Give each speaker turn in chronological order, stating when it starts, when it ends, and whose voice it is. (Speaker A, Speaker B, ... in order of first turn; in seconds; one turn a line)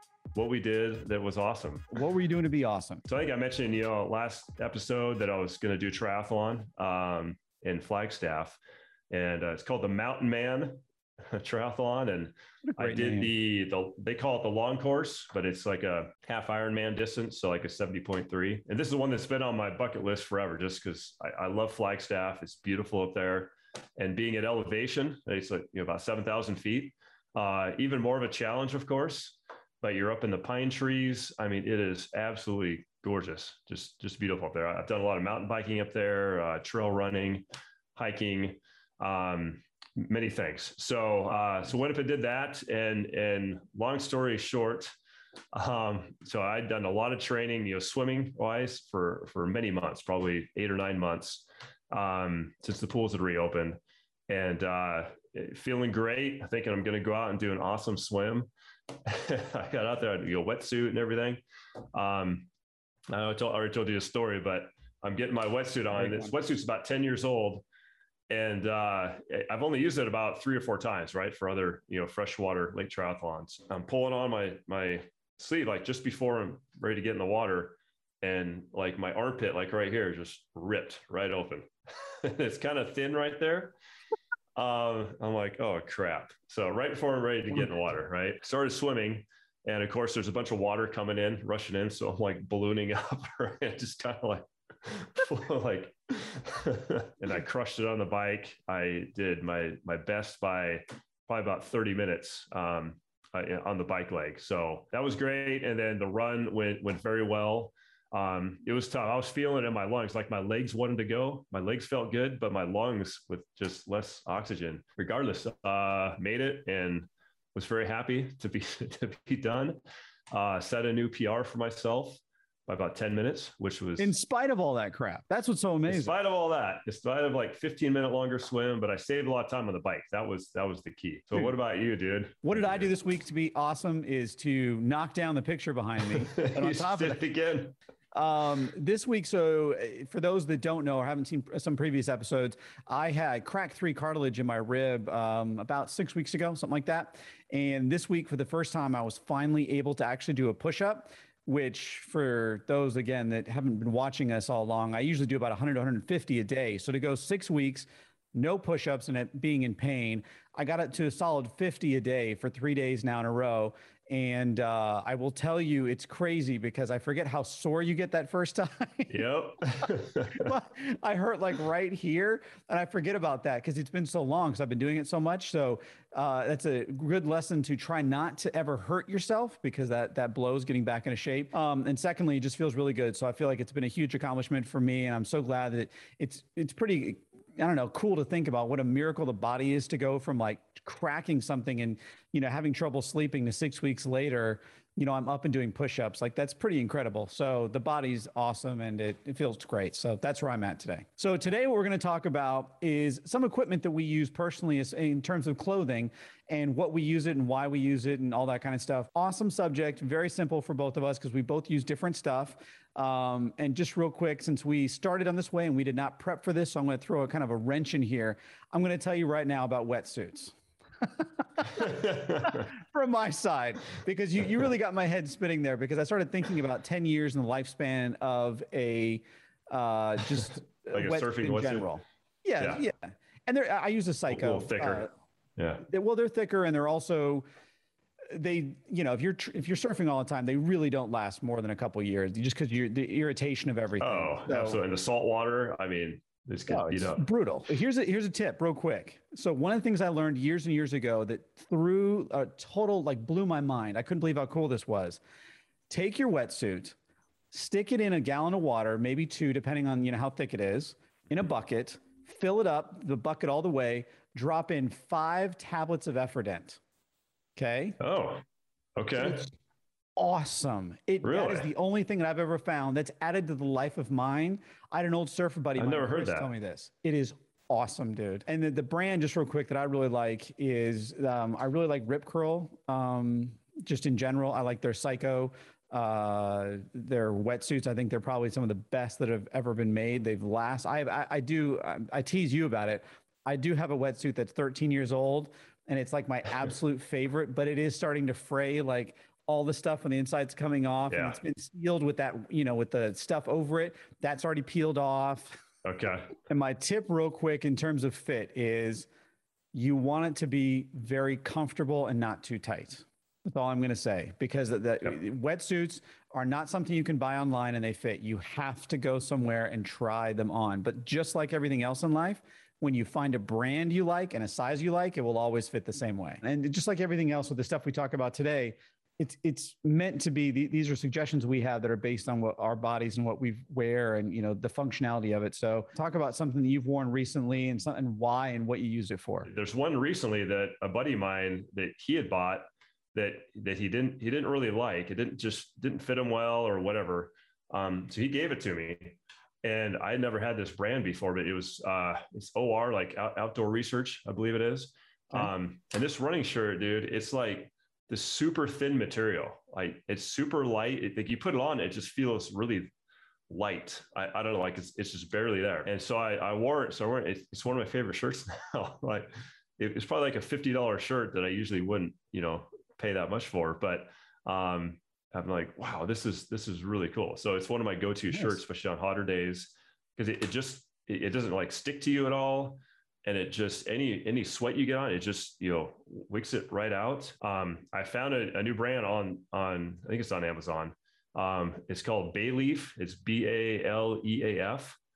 Speaker A: 0.3-2.0
Speaker B: 1.9-3.0
Speaker A: 3.0-8.6
Speaker A: 9.1-37.4
Speaker B: 12.7-13.3
Speaker A: 38.0-44.9
Speaker A: 45.5-58.5
Speaker A: 59.1-61.4
Speaker A: 61.9-62.5
Speaker A: 63.1-67.7
Speaker B: 65.9-66.3
Speaker A: 68.3-83.8
Speaker A: 84.6-119.8
Speaker A: 120.3-124.1
Speaker B: 124.0-126.1
Speaker A: 125.9-132.9
Speaker B: 132.4-137.2
Speaker A: 136.1-137.8
Speaker B: 138.1-169.2
Speaker A: 169.1-170.5
Speaker B: 170.4-235.1
Speaker A: 221.8-222.6
Speaker A: 230.9-231.9
Speaker A: 232.6-232.8
Speaker A: 234.3-235.8
Speaker B: 235.8-237.4
Speaker B: 238.3-244.8
Speaker A: 244.0-247.2
Speaker B: 246.7-255.2
Speaker B: 255.9-256.9
Speaker B: 257.5-266.8
Speaker B: 267.6-268.0
Speaker A: 268.0-268.4
Speaker A: 268.9-269.4
Speaker B: 269.2-269.4
Speaker B: 270.1-305.6
Speaker A: 271.2-271.7
Speaker A: 275.8-276.5
Speaker A: 301.1-301.4
Speaker A: 305.8-306.4
Speaker B: 306.4-309.1
Speaker B: 309.7-339.5
Speaker A: 339.5-362.9
Speaker A: 363.5-395.0
Speaker B: 378.3-378.6